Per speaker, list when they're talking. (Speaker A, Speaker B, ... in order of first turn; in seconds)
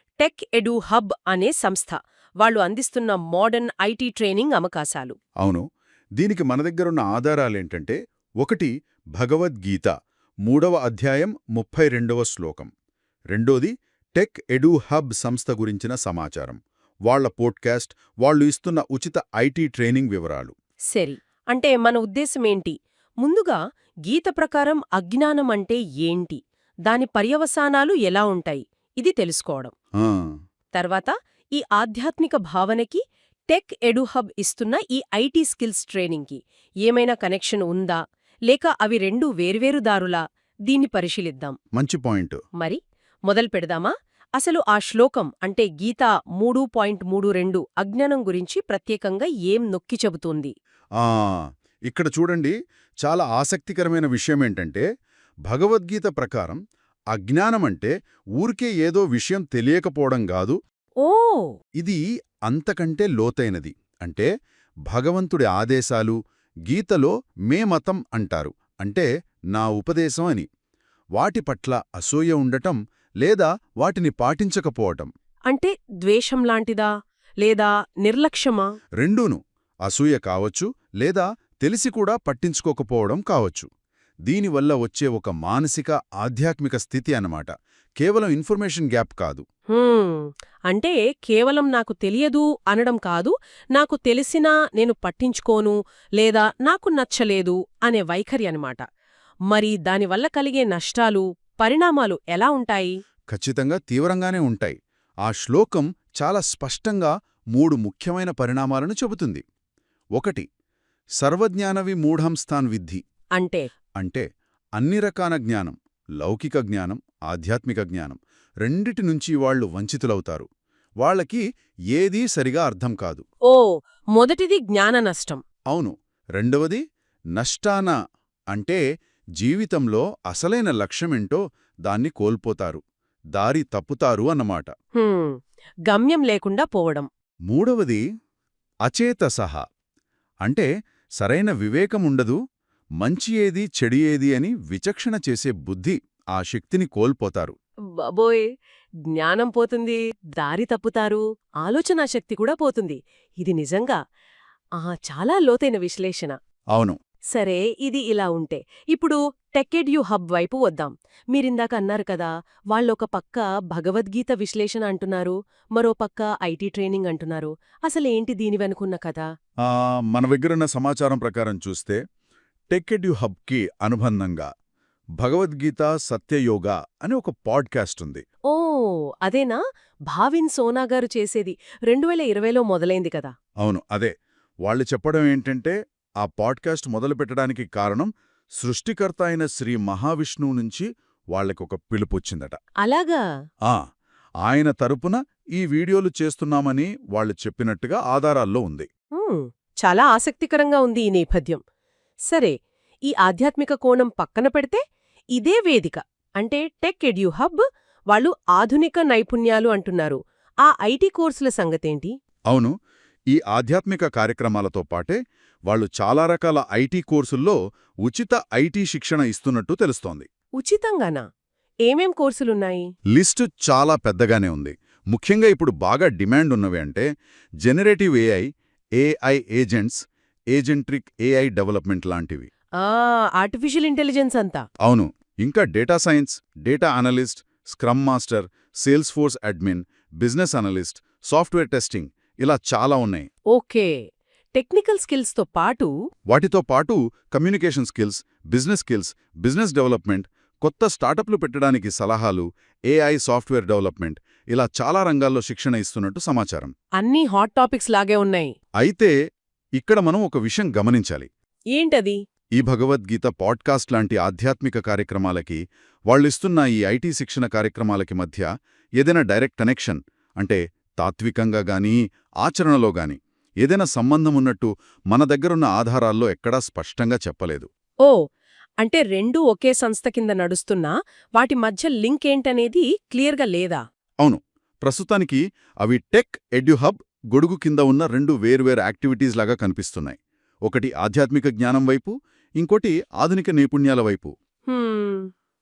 Speaker A: 0.2-5.2, 20.9-29.7, 30.8-38.0, 38.5-41.5, 42.6-50.5, 61.0-61.5, 75.5-76.9, 77.4-78.7, 89.7-98.8, 99.5-103.0, 113.4-113.7, 123.5-125.4, 135.0-135.4, 135.9-137.1, 148.1-148.5, 149.1-154.0, 154.8-156.4, 157.3-169.2, 178.5-183.3, 192.8-193.2, 199.2-201.6, 203.1-204.8, 205.4-212.1, 220.6-221.2, 221.9-222.9, 232.8-234.6, 243.5-243.9, 244.6-245.9, 257.0-258.5, 261.7-262.2, 278.8-283.8, 294.7-295.3
Speaker B: 6.2-9.9, 10.5-12.7, 13.3-20.5, 30.0-30.3, 41.8-42.4, 51.0-54.9, 55.5-56.6, 57.1-60.6, 61.8-64.3, 64.9-66.2, 66.7-70.5, 71.2-75.1, 79.0-83.7, 84.3-89.4, 103.3-109.4, 110.2-110.5, 111.2-113.0, 114.0-114.2, 114.8-120.5, 121.0-123.2, 125.7-126.8, 127.4-127.9, 128.5-128.8, 129.4-132.8, 133.3-134.7, 137.5-138.0, 138.9-139.6, 141.2-142.4, 143.0-147.6, 169.7-172.0, 172.7-174.5, 175.2-178.2, 183.6-184.1, 184.6-192.6, 194.4-198.9, 213.3-215.2, 215.7-220.3, 223.1-227.1, 227.6-228.5, 229.0-230.0, 230.5-232.5, 234.8-243.3, 246.3-256.7, 258.8-259.1, 259.8-261.3, 262.6-268.5, 269.0-277.7, 284.2-290.2, 290.7-294.3